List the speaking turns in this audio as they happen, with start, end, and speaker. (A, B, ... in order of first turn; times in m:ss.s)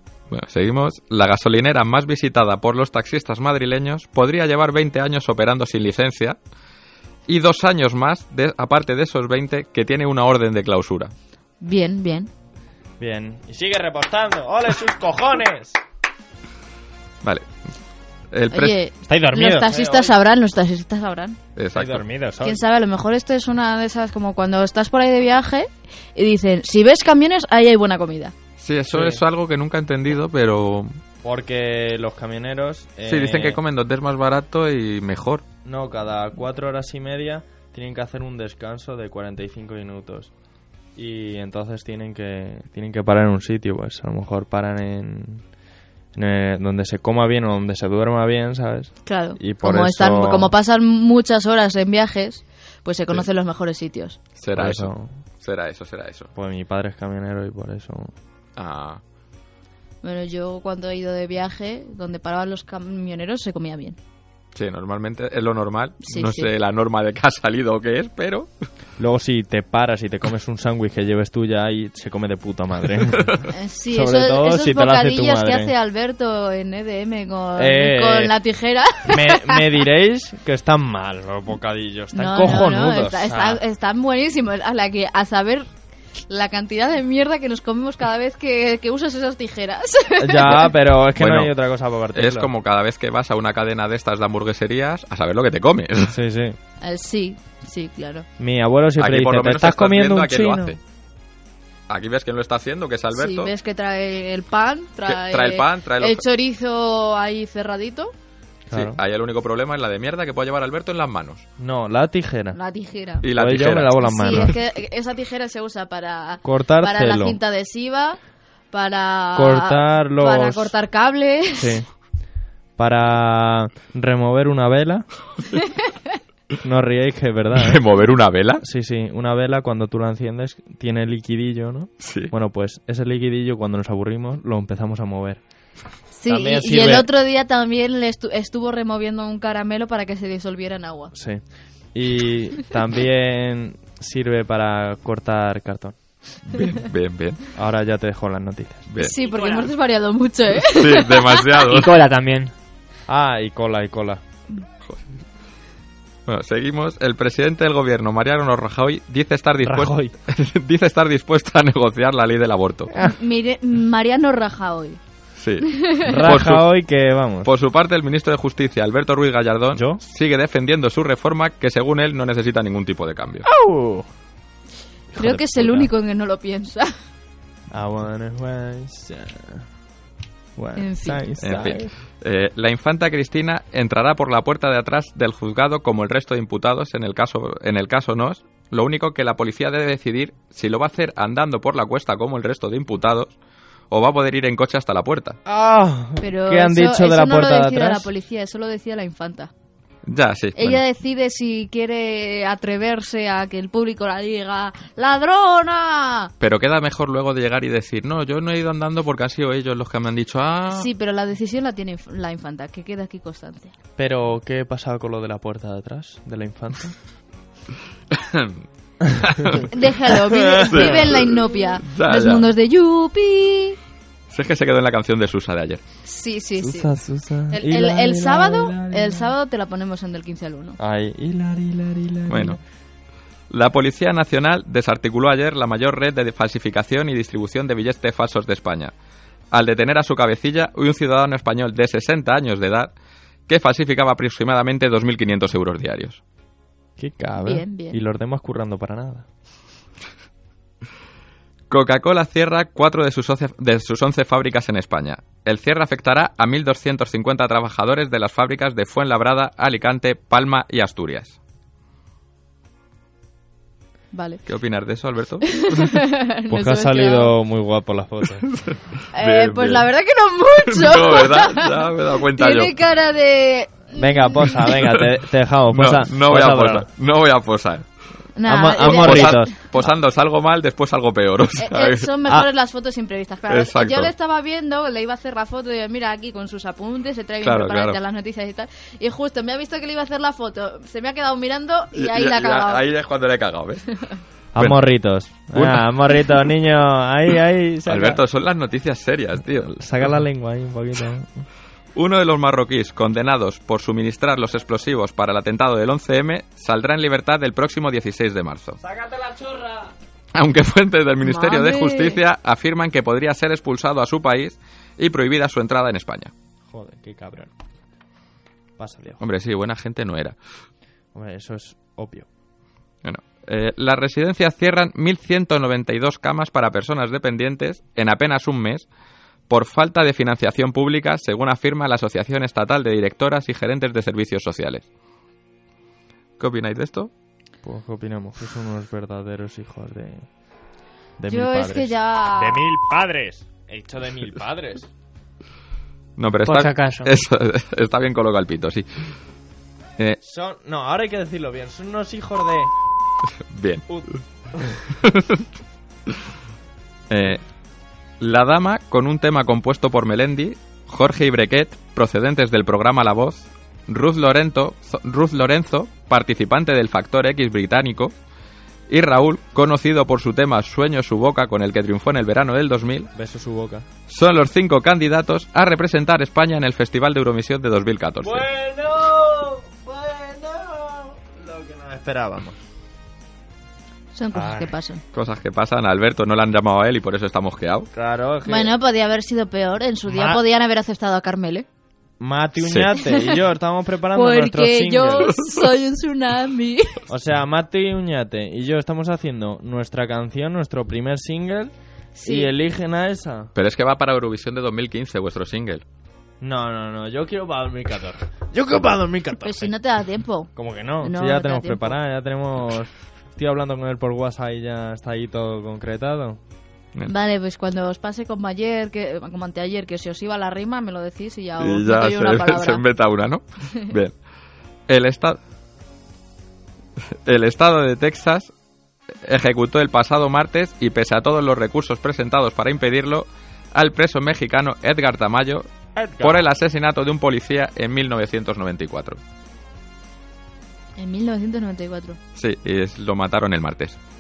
0:00.3-0:06.4 A
0:07.3-0:11.1 A
0:11.6-0:12.3 B
0:13.0-0:15.8 C
0:17.2-0:17.5 A
0:18.3-0:18.8 A
0:18.5-0:21.4 B
0:19.1-0:20.2 C
0:21.6-0:22.1 A
0:21.7-0:22.6 C
0:22.4-0:28.3 B
0:28.6-0:31.0 A
0:28.9-0:29.2 C
0:31.2-0:33.6 C
0:33.1-0:35.4 A
0:35.6-0:40.3 C
0:41.0-0:45.5 C
0:46.1-0:50.5 C
0:49.0-0:54.2 B
0:54.4-0:56.3 A
0:54.6-0:55.2 C
0:56.4-0:58.1 C
0:58.6-0:59.0 A
1:00.0-1:04.0 B
1:04.6-1:08.5 A
1:06.0-1:06.5 B
1:09.0-1:13.4 C
1:13.5-1:19.6 B
1:13.9-1:15.7 C
1:17.6-1:18.4 C
1:19.1-1:23.6 C
1:22.1-1:25.7 B
1:26.3-1:30.6 B
1:30.2-1:32.5 C
1:31.2-1:31.5 A
1:32.1-1:36.2 A
1:36.1-1:36.6 C
1:36.8-1:38.3 B
1:38.4-1:40.8 C
1:39.0-1:40.8 A
1:41.9-1:43.5 A
1:43.1-1:48.1 B
1:45.1-1:46.2 A
1:48.7-1:49.0 C
1:48.7-1:51.4 A
1:51.6-1:52.6 C
1:52.5-1:53.3 B
1:53.2-1:54.5 A
1:53.3-1:54.5 C
1:54.0-1:58.2 B
1:56.4-1:57.4 C
1:58.7-2:01.7 B
1:59.4-2:00.7 C
2:01.5-2:01.9 C
2:02.8-2:05.1 C
2:06.6-2:07.8 C
2:07.6-2:08.6 A
2:08.6-2:15.4 C
2:12.0-2:12.3 A
2:16.1-2:21.1 B
2:16.3-2:17.1 C
2:21.1-2:26.0 C
2:26.5-2:27.4 A
2:27.6-2:28.9 C
2:28.9-2:29.2 A
2:29.0-2:31.4 B
2:29.2-2:29.7 D
2:30.6-2:32.0 A
2:31.7-2:32.5 D
2:33.1-2:34.2 C
2:36.3-2:42.9 A
2:39.6-2:40.1 C
2:43.0-2:45.0 B
2:45.4-2:46.7 A
2:45.7-2:46.0 B
2:46.1-2:47.5 C
2:47.4-2:53.5 A
2:49.8-2:50.0 C
2:53.5-2:54.1 C
2:55.1-2:55.9 C
2:55.2-2:56.9 B
2:57.7-2:59.7 C
3:00.6-3:01.9 C
3:00.8-3:01.2 B
3:01.4-3:13.4 A
3:13.9-3:15.4 A
3:15.5-3:18.1 C
3:16.2-3:19.5 B
3:20.1-3:20.8 A
3:20.6-3:26.3 B
3:26.4-3:30.9 A
3:30.7-3:33.7 B
3:34.0-3:37.0 C
3:38.1-3:38.6 A
3:39.2-3:39.6 A
3:39.7-3:43.8 B
3:40.3-3:41.0 C
3:40.7-3:42.5 A
3:44.3-3:45.8 A
3:46.0-3:46.9 B
3:46.6-3:49.3 C
3:47.5-3:50.8 B
3:50.8-3:52.6 C
3:52.3-3:52.6 A
3:53.5-3:58.9 A
3:59.5-4:02.9 A
4:03.5-4:06.2 A
4:07.0-4:09.3 C
4:07.4-4:08.0 B
4:11.7-4:21.4 A
4:24.1-4:24.4 B
4:24.5-4:25.9 A
4:25.6-4:27.3 B
4:26.5-4:28.5 C
4:28.7-4:29.9 A
4:29.1-4:34.7 B
4:30.7-4:32.7 A
4:33.9-4:36.9 C
4:35.7-4:37.9 A
4:38.4-4:39.5 B
4:38.5-4:39.6 C
4:38.8-4:42.1 A
4:41.6-4:52.8 B
4:43.5-4:44.1 A
4:47.4-4:48.0 A
4:52.0-4:53.9 A
4:54.6-4:58.2 C
4:54.6-4:54.8 A
4:55.5-4:56.4 A
4:57.9-4:59.8 A
4:59.7-5:01.5 C
5:02.0-5:08.8 A
5:08.9-5:09.9 C
5:10.3-5:16.3 A
5:11.2-5:12.2 B
5:16.7-5:17.5 C
5:18.8-5:19.2 C
5:19.2-5:20.4 A
5:21.1-5:22.3 C
5:23.0-5:28.9 A
5:29.5-5:34.9 A
5:36.4-5:37.1 A
5:37.6-5:40.3 C
5:41.2-5:44.9 C
5:41.3-5:42.6 B
5:46.2-5:48.9 A
5:46.5-5:47.1 D
5:50.2-5:52.7 C
5:53.5-5:53.9 A
5:53.9-5:54.7 C
5:55.0-5:55.4 A
5:57.1-5:57.4 A
5:58.2-6:08.1 A
6:08.9-6:13.1 A
6:13.1-6:13.9 C
6:14.1-6:18.5 A
6:18.2-6:22.6 C
6:24.1-6:25.0 B
6:24.3-6:24.7 C
6:25.1-6:27.9 A
6:27.9-6:28.8 C
6:28.5-6:31.7 B
6:30.1-6:30.4 C
6:32.2-6:35.3 C
6:32.6-6:32.9 A
6:33.1-6:33.3 B
6:34.1-6:37.0 B
6:37.1-6:41.7 C
6:42.2-6:42.5 B
6:42.2-6:43.5 C
6:43.6-6:45.8 A
6:46.4-6:49.7 C
6:49.4-6:52.0 B
6:50.6-6:56.4 C
6:57.1-7:02.8 B
7:01.6-7:04.1 A
7:04.9-7:05.4 A
7:07.3-7:08.5 A
7:09.2-7:15.7 A
7:16.0-7:16.4 C
7:16.2-7:19.2 A
7:21.0-7:22.2 B
7:22.4-7:24.0 A